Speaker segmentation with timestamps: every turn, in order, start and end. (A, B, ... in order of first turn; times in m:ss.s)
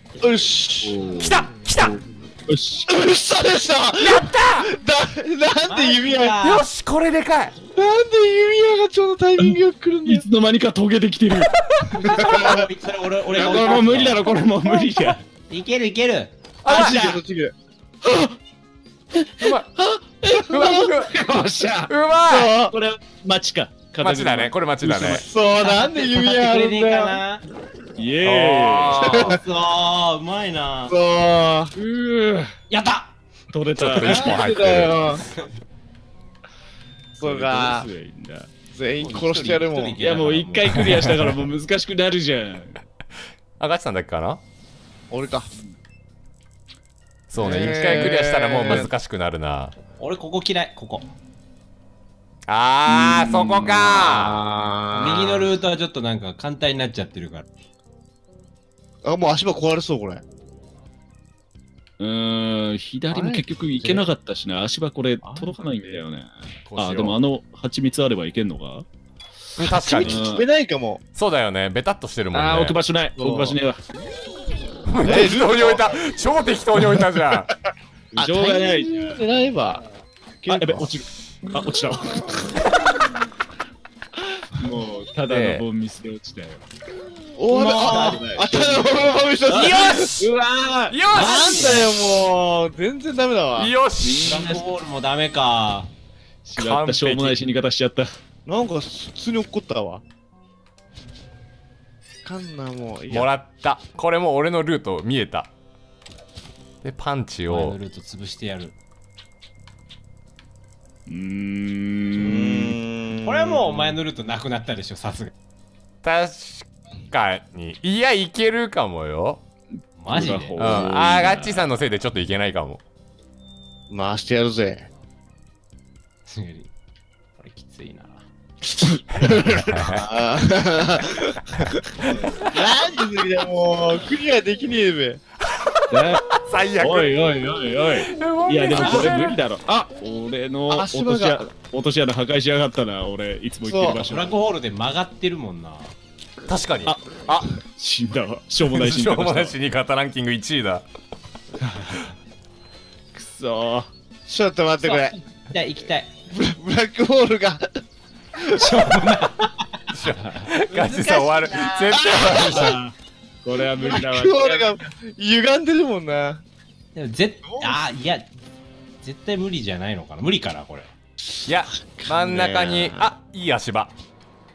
0:00.2-0:01.0 A
0:00.8-0:03.0 B
0:01.2-0:02.0 C
0:02.9-0:06.4 A
0:04.0-0:04.7 C
0:05.7-0:06.7 D
0:06.4-0:07.6 C
0:07.7-0:10.3 A
0:09.4-0:11.5 B
0:11.7-0:12.0 C
0:11.9-0:16.3 D
0:12.1-0:12.7 A
0:13.3-0:15.2 B
0:13.4-0:13.9 A
0:16.6-0:17.2 C
0:16.7-0:17.5 A
0:16.7-0:17.2 B
0:18.0-0:18.4 B
0:19.2-0:21.9 B
0:19.4-0:19.7 C
0:20.4-0:21.1 C
0:21.9-0:22.6 C
0:22.3-0:22.7 A
0:22.5-0:25.2 B
0:24.0-0:25.2 C
0:24.9-0:27.2 A
0:25.6-0:27.4 D
0:28.0-0:29.1 B
0:28.2-0:29.4 C
0:29.0-0:29.4 A
0:29.1-0:31.0 D
0:30.9-0:31.7 A
0:31.8-0:32.6 B
0:32.7-0:33.2 D
0:33.5-0:35.0 B
0:33.8-0:35.0 C
0:34.0-0:35.2 A
0:37.2-0:38.5 B
0:37.2-0:37.9 A
0:38.7-0:40.0 A
0:39.0-0:40.9 D
0:40.0-0:42.8 B
0:40.8-0:41.2 C
0:43.6-0:44.4 C
0:45.1-0:45.5 A
0:47.3-0:49.7 C
0:47.4-0:48.9 A
0:47.5-0:48.8 B
0:50.0-0:51.1 D
0:52.5-0:54.4 C
0:52.9-0:54.1 B
0:53.9-0:55.6 A
0:54.9-0:57.5 D
0:59.0-1:00.2 A
1:02.0-1:08.8 B
1:03.1-1:04.1 A
1:05.2-1:05.6 A
1:06.7-1:07.2 C
1:09.6-1:10.2 C
1:09.6-1:11.0 A
1:10.0-1:10.4 B
1:11.2-1:12.8 C
1:12.3-1:13.8 B
1:13.2-1:13.6 A
1:14.9-1:17.5 C
1:15.0-1:16.0 A
1:18.1-1:19.1 B
1:18.2-1:19.8 A
1:20.4-1:20.9 A
1:20.5-1:22.5 B
1:24.3-1:26.6 B
1:25.3-1:25.6 C
1:27.4-1:30.1 A
1:27.5-1:28.2 D
1:27.8-1:31.0 B
1:29.5-1:30.3 C
1:30.9-1:31.9 C
1:31.1-1:31.9 D
1:31.1-1:33.7 A
1:33.6-1:34.4 C
1:34.0-1:34.7 B
1:34.3-1:35.9 D
1:36.4-1:38.1 B
1:36.6-1:37.4 C
1:38.5-1:40.0 A
1:42.2-1:43.3 A
1:43.1-1:45.5 C
1:46.8-1:47.8 C
1:47.5-1:48.8 D
1:51.1-1:52.8 B
1:52.1-1:53.8 A
1:53.2-1:55.3 D
1:56.0-1:59.4 C
2:00.0-2:00.6 D
2:00.1-2:01.7 B
2:00.6-2:02.8 C
2:03.9-2:04.9 A
2:06.3-2:06.7 D
2:07.4-2:08.2 D
2:08.9-2:09.9 B
2:09.2-2:10.0 C
2:09.5-2:15.2 A
2:15.6-2:17.2 C
2:15.9-2:24.4 B
2:18.1-2:19.4 C
2:18.8-2:19.1 D
2:20.7-2:21.5 A
2:23.6-2:24.0 A
2:24.0-2:26.0 D
2:26.5-2:27.5 C
2:26.8-2:29.6 B
2:28.7-2:30.8 C
2:31.6-2:32.1 B
2:33.1-2:33.9 B
2:34.3-2:35.1 A
2:34.8-2:36.1 D
2:36.3-2:37.8 A
2:38.4-2:38.6 A
2:38.5-2:42.7 D
2:39.9-2:42.8 C
2:41.9-2:42.8 A
2:42.3-2:44.8 B
2:43.7-2:46.4 A
2:47.0-2:48.3 D
2:47.4-2:47.8 A
2:49.0-2:50.9 D
2:51.5-2:53.9 C
2:51.5-2:53.1 A